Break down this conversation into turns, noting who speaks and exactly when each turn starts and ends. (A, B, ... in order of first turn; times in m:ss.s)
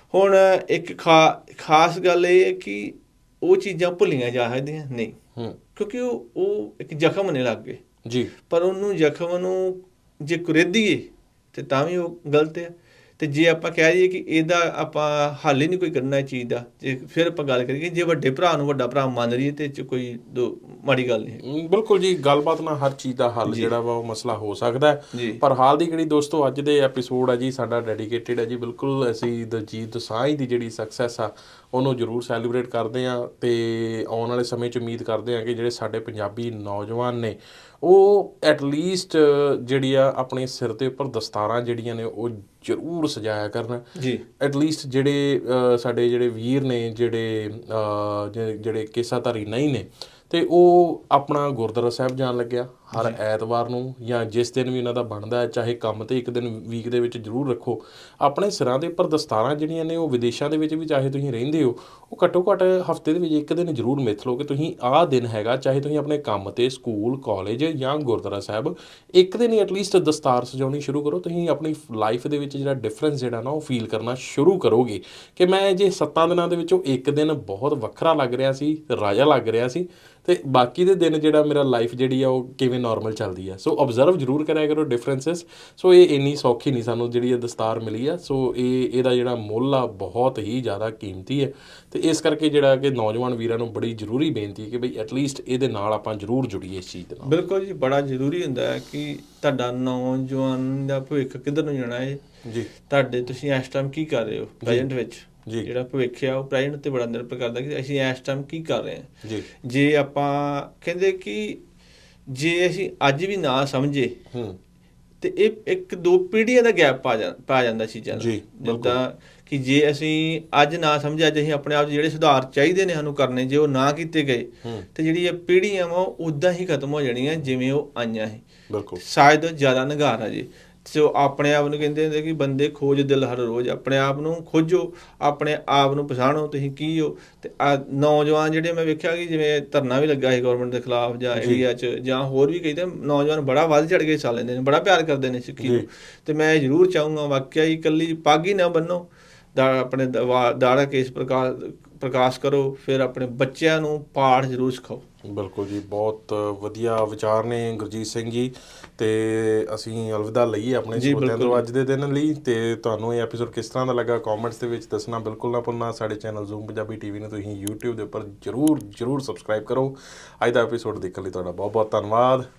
0:00.1-0:05.2 A
0:05.7-0:07.8 A
0:08.0-0:08.3 B
0:08.5-0:21.4 A
0:21.4-0:43.8 B
0:23.4-0:23.7 A
0:25.1-0:25.4 A
0:44.0-0:44.2 A
0:44.4-1:37.3 B
1:37.2-1:42.2 A
1:42.9-1:49.1 A
1:44.6-1:44.9 B
1:49.6-1:51.6 A
1:52.3-1:54.2 A
1:54.3-1:54.6 B
1:55.2-2:08.4 A
1:58.1-1:59.0 B
2:08.7-2:09.0 B
2:09.0-2:35.0 A
2:21.3-2:21.6 B
2:25.6-2:25.9 B
2:35.2-2:52.5 B
2:41.0-2:41.6 A